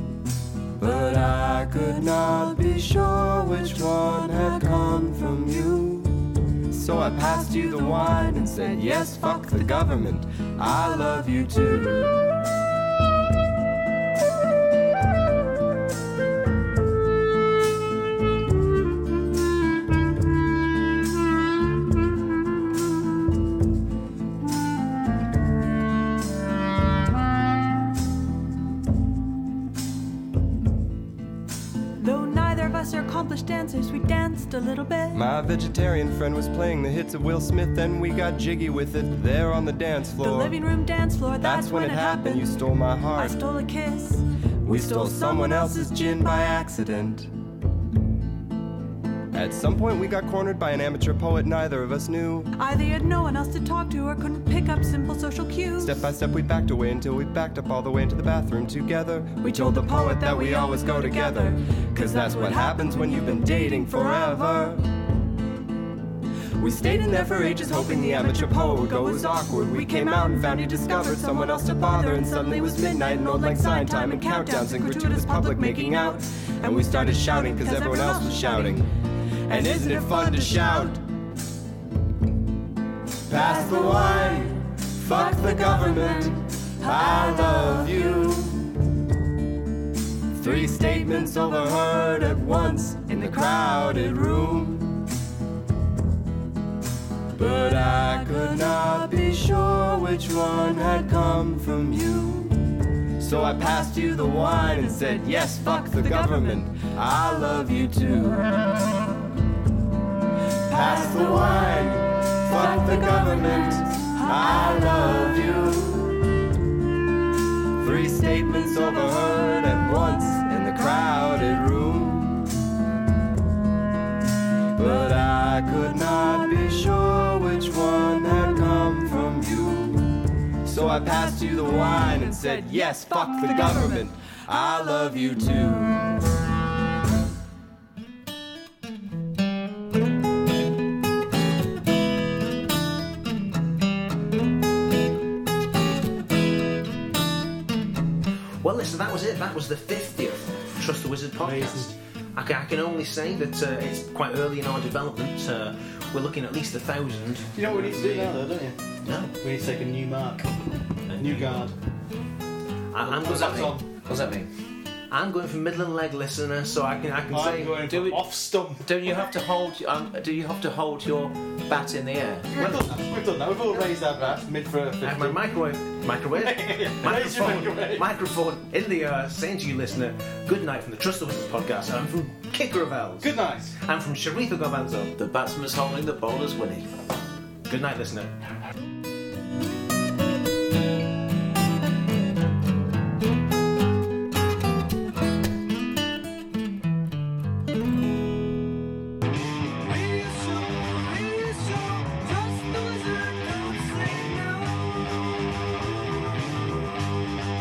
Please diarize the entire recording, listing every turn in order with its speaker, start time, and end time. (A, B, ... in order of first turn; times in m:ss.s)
0:00.8-0:06.2 A
0:03.5-0:04.8 B
0:06.7-0:12.1 A
0:08.5-0:09.9 B
0:32.0-0:35.2 B
0:35.1-0:40.6 A
0:40.2-0:46.8 B
0:41.4-0:43.4 A
0:44.6-0:47.3 A
0:49.3-0:52.5 A
0:52.5-0:56.0 B
0:55.7-1:04.9 A
0:59.4-1:04.7 B
1:06.6-1:18.9 A
1:06.7-1:18.8 B
1:19.5-1:21.0 B
1:19.5-1:21.0 A
1:23.3-1:28.6 A
1:23.3-1:24.5 B
1:25.0-1:28.3 B
1:30.3-1:35.0 A
1:33.1-1:33.6 B
1:37.4-1:48.5 A
1:44.7-1:46.8 B
1:50.7-1:56.2 A
1:50.7-1:51.8 B
1:52.5-1:55.6 B
1:57.8-2:02.5 A
2:04.7-2:16.2 A
2:10.9-2:15.6 B
2:28.6-2:38.3 C
2:31.4-2:31.9 D
2:37.5-2:38.8 D
2:39.0-2:39.3 E
2:39.3-2:40.5 D
2:41.1-2:41.5 E
2:41.2-2:41.7 D
2:42.9-2:43.8 C
2:43.0-2:43.9 D
2:43.2-2:44.5 E
2:45.1-2:47.8 C
2:47.3-2:48.9 D
2:47.8-2:48.3 E
2:48.8-2:52.8 E
2:52.5-2:55.4 D
2:55.0-3:05.1 C
2:56.3-2:58.1 D
3:03.2-3:03.7 D
3:05.2-3:06.9 E
3:07.6-3:08.3 C
3:19.8-3:25.0 B